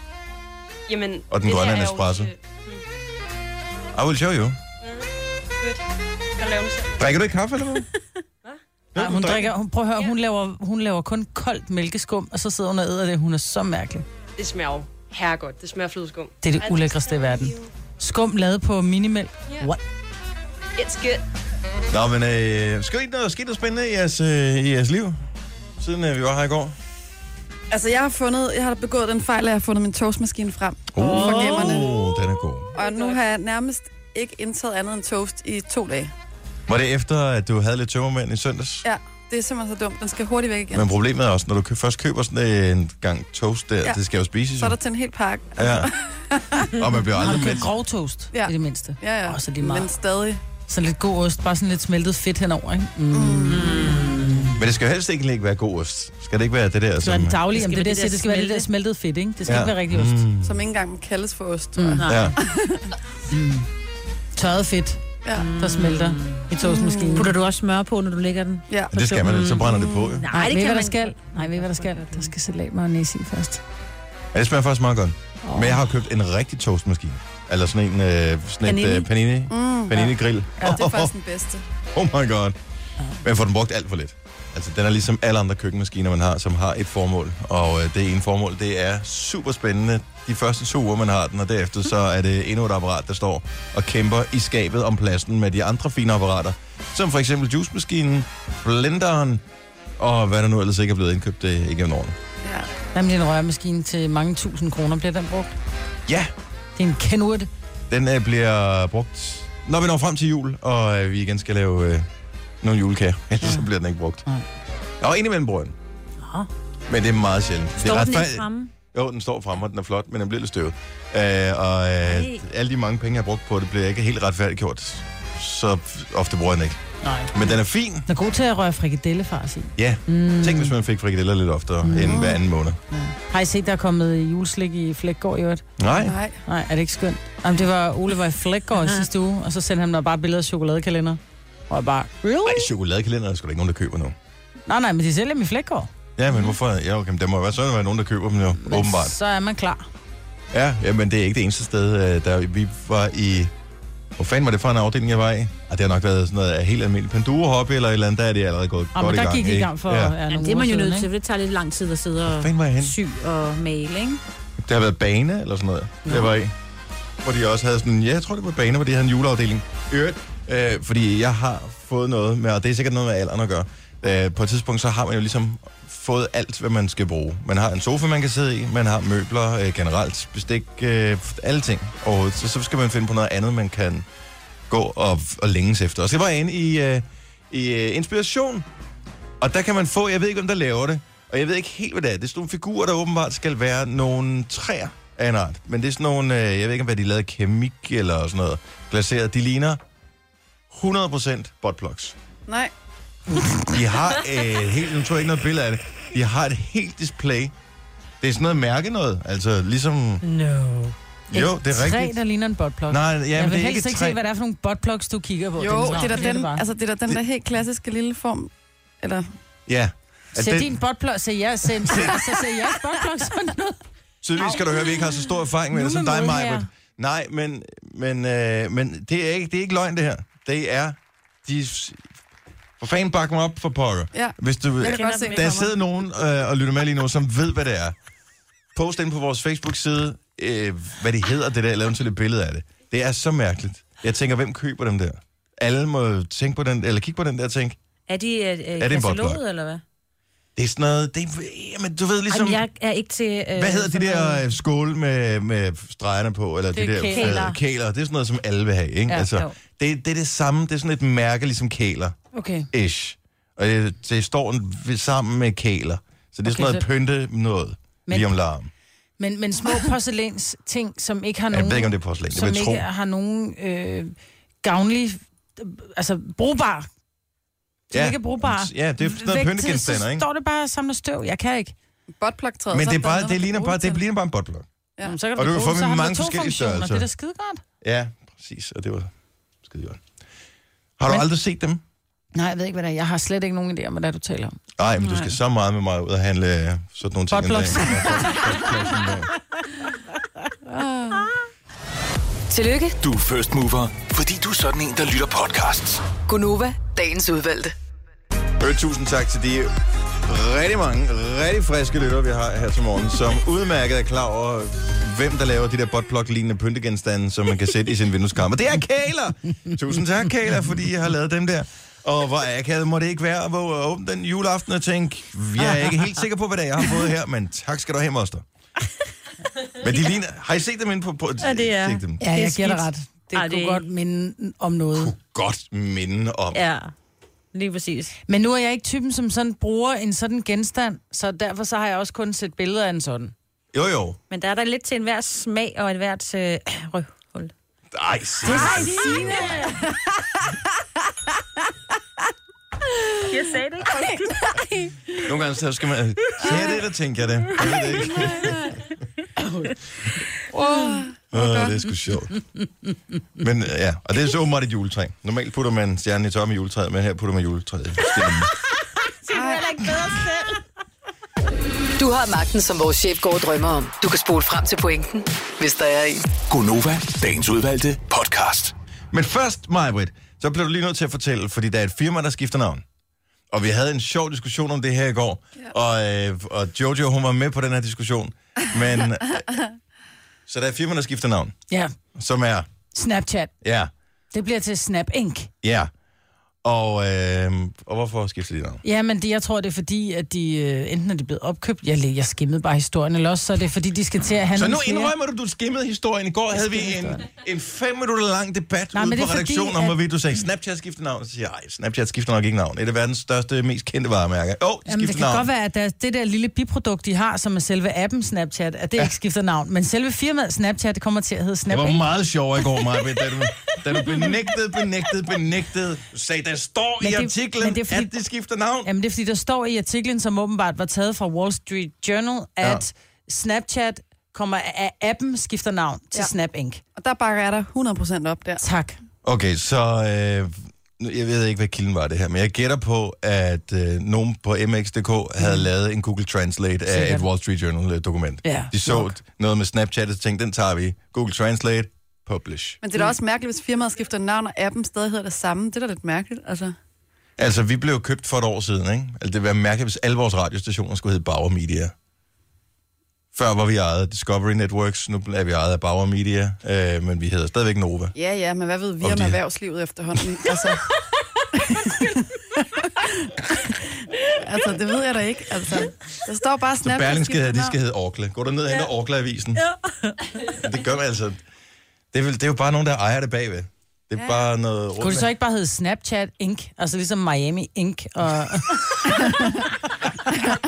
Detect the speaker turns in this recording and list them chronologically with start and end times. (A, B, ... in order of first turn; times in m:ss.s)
0:00.9-0:02.8 A
0:01.3-0:02.3 B
0:03.9-0:04.6 B
0:04.8-0:05.8 A
0:06.4-0:07.2 A
0:07.0-0:07.9 B
0:08.9-0:09.5 B
0:09.0-0:14.0 C
0:14.4-0:17.7 A
0:16.4-0:19.8 C
0:20.8-0:21.2 A
0:21.9-0:25.2 B
0:25.8-0:26.8 B
0:27.7-0:31.9 D
0:30.9-0:32.7 B
0:31.0-0:32.0 E
0:32.7-0:36.1 D
0:32.8-0:33.2 A
0:36.7-0:38.8 B
0:38.8-0:40.9 D
0:40.7-0:44.8 B
0:44.6-0:46.8 D
0:45.6-0:45.9 B
0:46.7-0:47.7 B
0:47.2-0:49.9 C
0:48.3-0:50.4 D
0:50.7-0:53.6 C
0:53.1-0:53.9 D
0:53.5-0:54.6 E
0:54.6-0:57.5 B
0:57.0-1:00.2 C
0:57.5-0:58.7 E
0:59.4-1:00.6 B
1:00.4-1:02.9 D
1:01.8-1:02.0 C
1:02.0-1:02.3 E
1:02.1-1:02.4 B
1:03.3-1:03.7 C
1:04.3-1:07.3 C
1:05.3-1:06.4 E
1:06.6-1:07.3 D
1:07.2-1:12.3 E
1:08.7-1:08.9 D
1:08.9-1:10.3 B
1:10.3-1:13.6 C
1:14.3-1:21.1 B
1:15.4-1:15.8 C
1:18.6-1:19.1 E
1:19.5-1:21.6 D
1:21.9-1:22.6 B
1:23.2-1:39.4 B
1:40.0-1:42.2 B
1:42.4-1:42.7 D
1:42.9-1:45.5 C
1:46.1-1:46.3 B
1:46.8-1:47.5 C
1:47.9-1:52.1 B
1:52.6-1:54.2 B
1:55.0-1:55.8 B
1:56.2-1:56.5 E
1:56.9-2:06.8 B
1:57.8-1:58.7 E
2:02.0-2:02.4 E
2:07.0-2:07.3 C
2:07.3-2:08.1 B
2:08.0-2:10.7 C
2:09.8-2:12.8 B
2:11.8-2:12.4 C
2:12.9-2:15.6 C
2:15.8-2:16.2 B
2:16.0-2:16.4 D
2:16.4-2:22.7 C
2:22.4-2:24.2 B
2:24.7-2:25.9 C
2:26.2-2:29.2 B
2:28.6-2:29.9 C
2:30.5-2:33.5 B
2:34.2-2:40.2 B
2:38.9-2:41.1 C
2:40.3-2:44.2 E
2:42.3-2:43.0 B
2:44.6-2:46.5 B
2:46.0-2:46.3 E
2:47.2-3:04.0 B
3:04.7-3:08.7 B
3:09.4-3:19.8 B
3:20.7-3:22.1 B
3:22.5-3:22.7 D
3:23.7-3:27.5 B
3:28.2-3:30.2 B
3:30.4-3:30.8 E
3:31.3-3:32.2 B
3:31.3-3:36.6 C
3:32.9-3:34.2 B
3:35.6-3:39.3 D
3:39.7-3:40.8 B
3:40.3-3:43.8 C
3:41.8-3:42.3 B
3:44.2-3:52.0 B
3:45.7-3:46.7 C
3:52.8-3:57.9 B
3:54.1-3:55.7 D
3:54.9-3:55.4 E
3:58.7-4:07.8 B
4:08.1-4:09.8 E
4:08.8-4:09.4 B
4:10.6-4:12.6 B
4:12.3-4:14.4 E
4:13.6-4:22.2 B
4:16.7-4:17.4 C
4:17.1-4:17.6 E
4:19.1-4:19.5 E
4:22.3-4:22.7 C
4:22.7-4:28.7 B
4:26.4-4:26.8 C
4:28.1-4:28.3 C
4:29.2-4:36.9 C
4:31.5-4:32.8 B
4:37.9-4:40.2 B
4:37.9-4:41.7 C
4:42.2-4:44.0 D
4:42.7-4:44.6 B
4:45.0-4:47.6 C
4:45.3-4:47.1 B
4:47.8-4:49.1 B
4:49.6-4:50.0 B
4:51.0-4:51.8 B
4:52.3-4:55.3 C
4:54.8-4:59.3 B
4:57.3-4:58.7 C
5:00.7-5:01.3 D
5:02.5-5:03.0 F
5:03.0-5:06.1 G
5:06.2-5:07.7 F
5:08.6-5:09.7 B
5:10.2-5:28.4 B
5:29.8-5:32.2 B
5:31.4-5:33.8 E
5:32.2-5:35.1 C
5:34.9-5:36.6 B
5:36.5-5:36.9 E
5:37.5-5:38.1 E
5:38.3-5:43.3 C
5:43.7-5:44.2 B
5:44.3-5:47.5 E
5:47.9-5:49.6 B
5:48.4-5:49.7 C
5:48.4-5:49.6 E
5:53.2-5:54.6 E
5:55.2-5:58.7 B
5:58.3-5:58.6 D
5:59.4-5:59.7 C
6:00.5-6:01.8 D
6:01.3-6:02.4 B
6:03.4-6:08.5 B
6:09.2-6:10.6 E
6:09.3-6:09.8 D
6:12.0-6:16.3 F
6:16.5-6:18.7 G
6:19.1-6:22.8 B
6:23.5-6:29.4 B
6:30.5-6:31.5 B
6:32.1-6:32.7 B
6:32.9-6:33.5 C
6:33.6-6:33.9 B
6:34.3-6:35.5 C
6:35.6-6:35.9 B
6:36.6-6:38.8 B
6:38.8-6:45.1 C
6:44.5-6:55.5 B
6:46.5-6:47.2 C
6:48.9-6:50.0 C
6:54.9-7:02.0 C
7:01.7-7:08.9 B
7:07.0-7:08.1 C
7:08.8-7:16.8 C
7:17.0-7:18.6 D
7:18.6-7:19.0 C
7:19.2-7:32.8 B
7:26.9-7:27.2 C
7:28.4-7:29.1 C
7:32.8-7:36.7 D
7:37.4-7:41.9 B
7:43.3-7:48.1 B
7:48.1-7:50.9 D
7:49.0-7:49.4 B
7:51.6-7:52.1 D
7:52.8-7:53.7 D
7:54.3-7:57.7 D
7:56.8-7:59.6 B
7:59.6-8:00.6 E
8:00.5-8:01.4 B
8:02.1-8:05.3 B
8:04.2-8:04.4 D
8:05.0-8:08.8 C